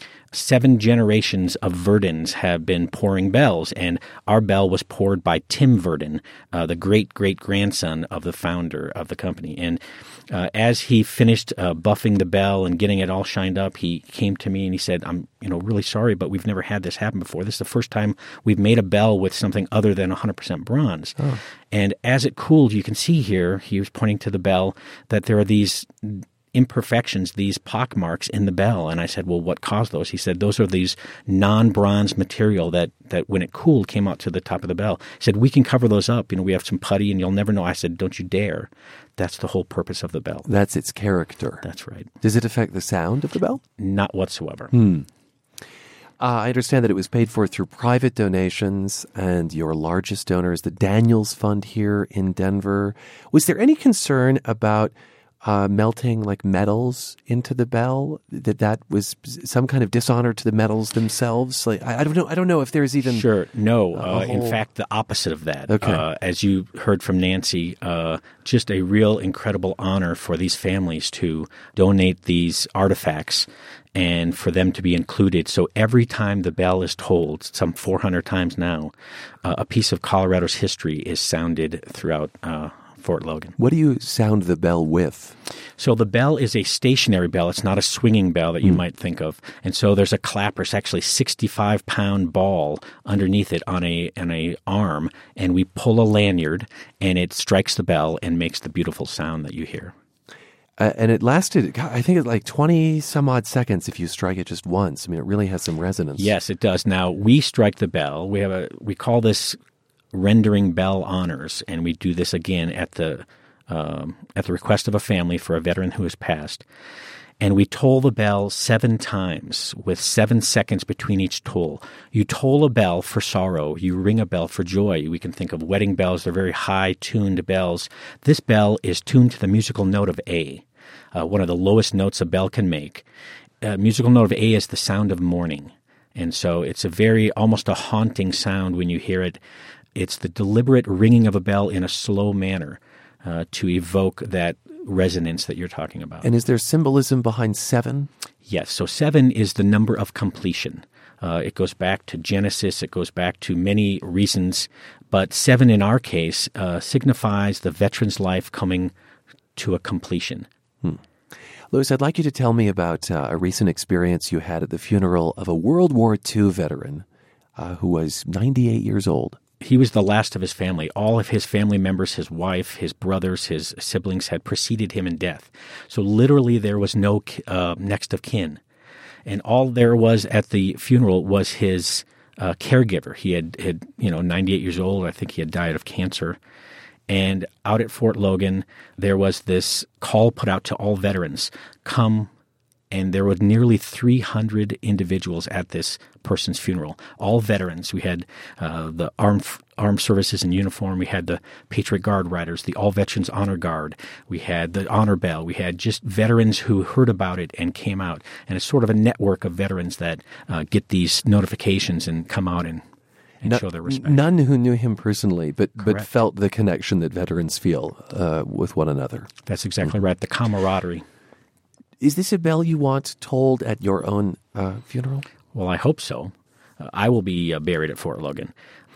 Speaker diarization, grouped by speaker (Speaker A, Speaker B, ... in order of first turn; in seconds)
Speaker A: 0.3-21.2, 21.7-40.5, 41.6-42.1, 43.8-44.7, 63.0-78.9, 79.4-83.5, 85.8-99.9, 106.2-109.6, 110.1-116.6, 117.4-130.6, 131.1-133.0, 133.6-139.4, 139.9-146.3, 148.4-158.9, 159.6-160.4, 169.6-178.6, 179.2-186.4, 187.1-192.3, 192.9-212.8, 213.4-214.2, 215.8-216.1, 219.4-221.0, 225.5-228.5
Speaker B: 40.5-41.6, 42.2-43.6, 44.7-45.1, 46.2-63.3, 63.9-64.6, 65.7-66.0, 83.6-85.3, 100.8-106.3, 146.2-148.1, 161.7-167.0, 167.6-169.4, 213.4-219.3, 222.0-225.2